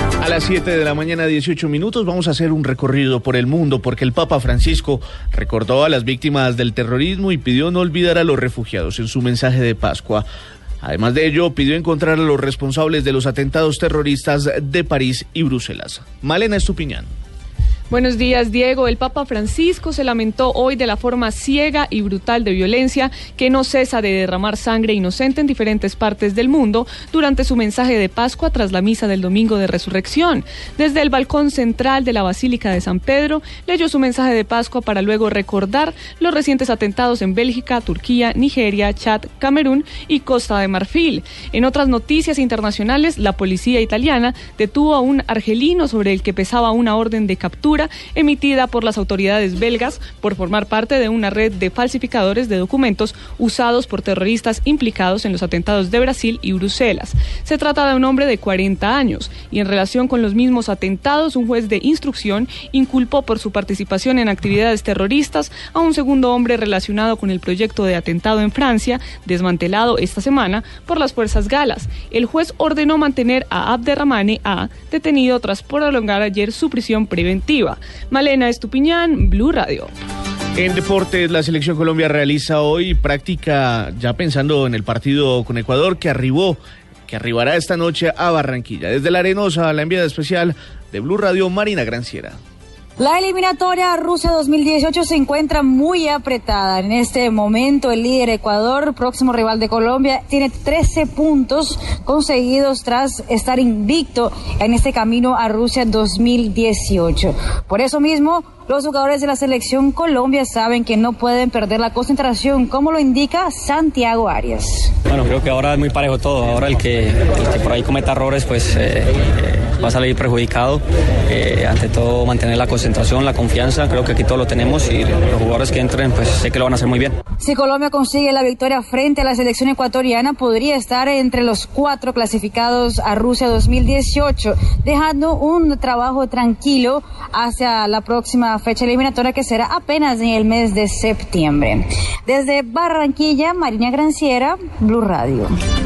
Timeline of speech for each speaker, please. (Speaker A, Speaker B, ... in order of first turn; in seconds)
Speaker A: 0.2-10.2, 10.8-17.1, 80.6-92.4
Speaker B: 17.9-79.9
Speaker C: 93.0-114.9, 127.4-145.6
Speaker D: 115.1-127.1